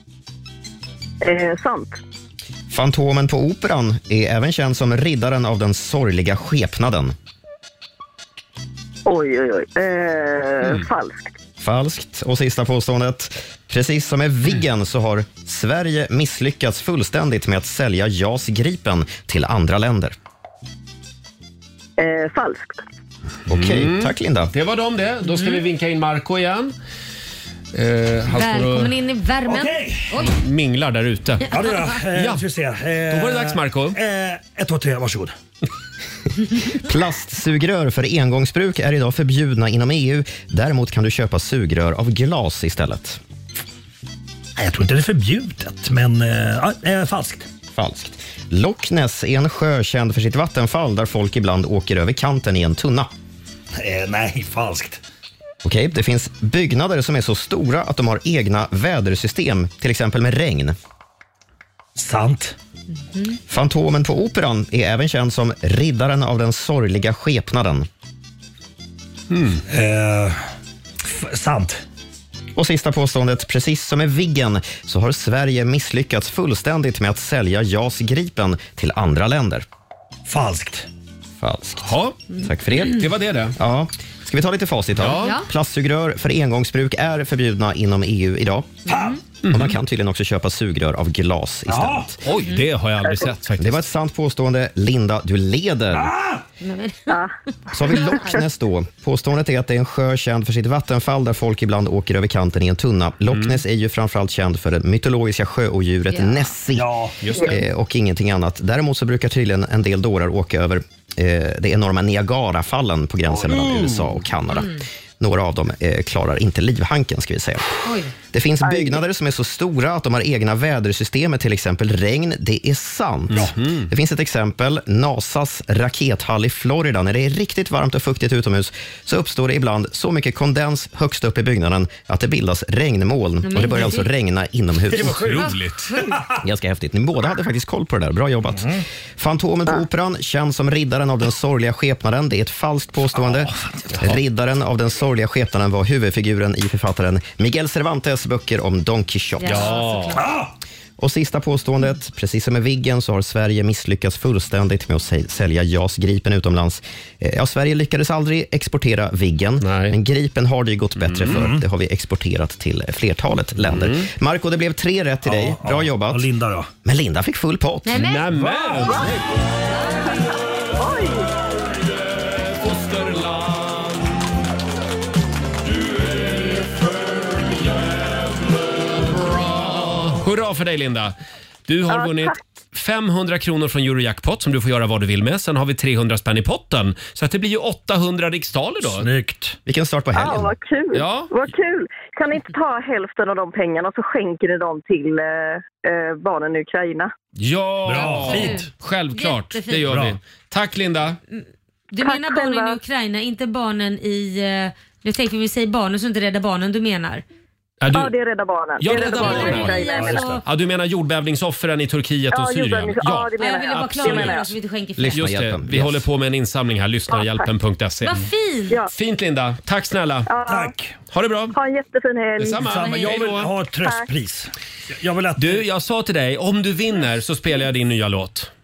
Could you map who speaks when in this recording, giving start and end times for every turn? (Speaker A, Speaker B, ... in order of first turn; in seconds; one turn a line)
Speaker A: 1.2-2.0
Speaker B: 2.7-7.1
Speaker A: 9.1-11.3
Speaker B: 11.6-20.1
Speaker A: 22.0-22.8
Speaker B: 23.5-24.5
Speaker C: 23.5-26.7
Speaker D: 25.3-25.6
Speaker C: 27.7-28.9
Speaker D: 28.3-30.4
Speaker E: 29.4-30.2
Speaker C: 30.2-31.6
Speaker E: 31.5-35.3
Speaker C: 32.1-32.4
Speaker C: 33.1-34.0
Speaker B: 36.7-43.2
Speaker E: 44.6-47.5
Speaker B: 47.7-53.1
Speaker E: 53.7-55.0
Speaker B: 55.6-60.8
Speaker E: 62.0-62.5
Speaker B: 63.5-67.9
Speaker C: 69.3-69.6
Speaker E: 69.7-70.4
Speaker E: 71.0-71.8
Speaker B: 72.5-79.6
Speaker E: 80.2-80.9
Speaker B: 81.4-88.8
Speaker C: 81.8-82.2
Speaker C: 82.8-83.5
Speaker C: 85.0-85.4
Speaker E: 88.9-89.2
Speaker C: 89.4-89.8
Speaker B: 89.5-92.2
Speaker E: 91.7-92.1
Speaker C: 92.2-93.8
Speaker B: 93.6-96.1
Speaker E: 95.9-96.4
Speaker D: 96.6-97.2
Speaker B: 97.7-117.7
Speaker D: 97.9-98.3
Speaker C: 103.3-103.6
Speaker D: 106.1-106.5
Speaker E: 106.7-107.2
Speaker C: 107.2-107.5
Speaker E: 113.4-114.0
Speaker D: 117.8-118.1
Speaker B: 118.3-135.5
Speaker A: 118.7-118.9
Speaker C: 123.3-123.9
Speaker D: 133.4-134.1
Speaker E: 134.9-136.3
Speaker C: 135.0-135.9
Speaker B: 136.4-149.8
Speaker E: 138.5-138.8
Speaker E: 143.2-143.8
Speaker D: 149.4-150.2
Speaker C: 149.4-150.2
Speaker E: 150.1-150.5
Speaker B: 151.0-166.3
Speaker C: 159.6-159.9
Speaker C: 161.0-161.4
Speaker E: 161.3-161.6
Speaker C: 163.6-164.1
Speaker E: 165.2-166.7
Speaker B: 166.8-168.1
Speaker D: 167.8-168.2
Speaker C: 167.9-169.1
Speaker A: 170.8-171.2
Speaker C: 172.2-174.2
Speaker C: 176.0-178.2
Speaker C: 179.2-181.1
Speaker C: 181.7-189.1
Speaker A: 181.9-182.3
Speaker E: 188.8-189.6
Speaker B: 189.7-190.5
Speaker A: 190.1-197.1
Speaker C: 190.9-191.3
Speaker C: 197.4-201.2
Speaker E: 197.8-198.7
Speaker D: 198.0-199.8
Speaker E: 199.8-200.2
Speaker D: 201.3-207.2
Speaker A: 202.0-202.8
Speaker C: 207.8-208.1
Speaker A: 207.9-210.2
Speaker C: 208.8-209.9
Speaker D: 208.9-210.4
Speaker E: 209.0-210.4
Speaker C: 210.4-213.3
Speaker A: 212.3-214.6
Speaker D: 213.4-215.2
Speaker C: 213.9-214.4
Speaker B: 215.0-216.1
Speaker C: 215.1-218.2
Speaker A: 217.1-217.4
Speaker D: 218.0-218.9
Speaker C: 218.9-220.3
Speaker A: 220.3-220.7
Speaker E: 220.4-220.9
Speaker C: 221.1-221.6
Speaker A: 221.5-222.7
Speaker C: 222.4-223.5
Speaker E: 222.6-225.6
Speaker C: 225.3-228.5